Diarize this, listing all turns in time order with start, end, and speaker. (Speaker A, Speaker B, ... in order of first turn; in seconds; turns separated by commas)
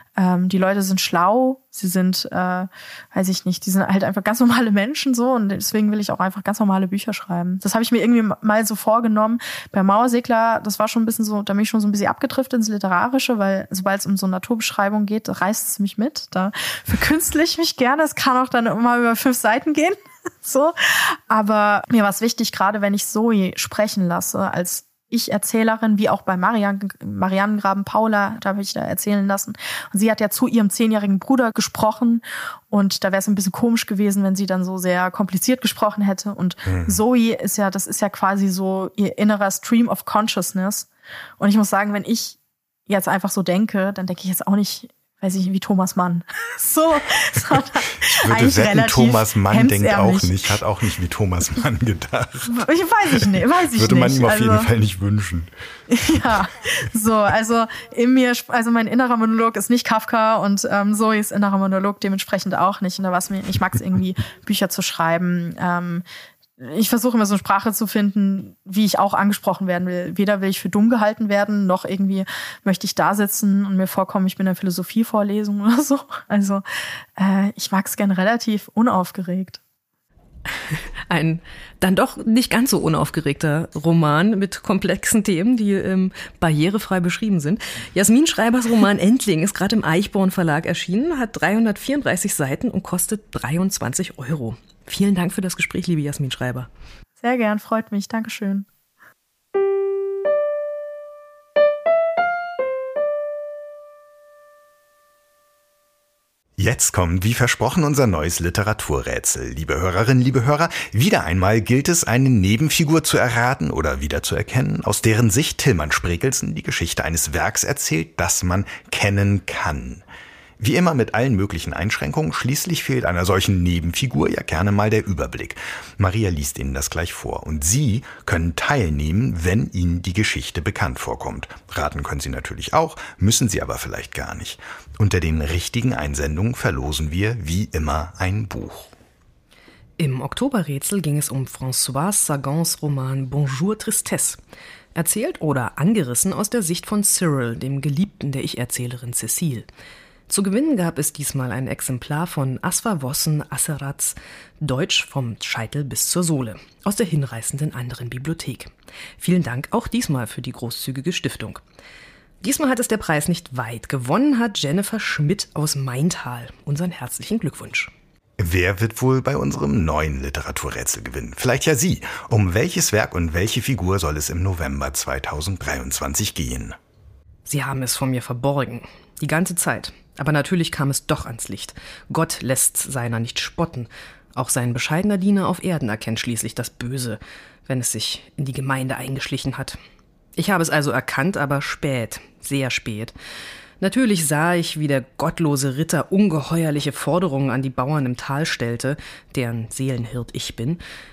Speaker A: 0.2-40.9, Speaker B: 36.7-37.0, Speaker A: 41.4-42.4, Speaker A: 42.9-50.6, Speaker B: 48.0-52.5, Speaker A: 52.5-54.7, Speaker B: 53.2-55.5, Speaker A: 55.9-66.0, Speaker A: 66.6-76.6, Speaker A: 77.2-79.6, Speaker C: 80.5-96.7, Speaker A: 97.2-98.7, Speaker B: 106.6-120.0, Speaker B: 120.6-138.9, Speaker C: 140.0-144.4, Speaker C: 144.9-149.7, Speaker C: 150.3-161.6, Speaker C: 162.4-167.9, Speaker B: 168.4-176.8, Speaker C: 177.5-189.8, Speaker C: 190.4-193.1, Speaker C: 193.8-200.8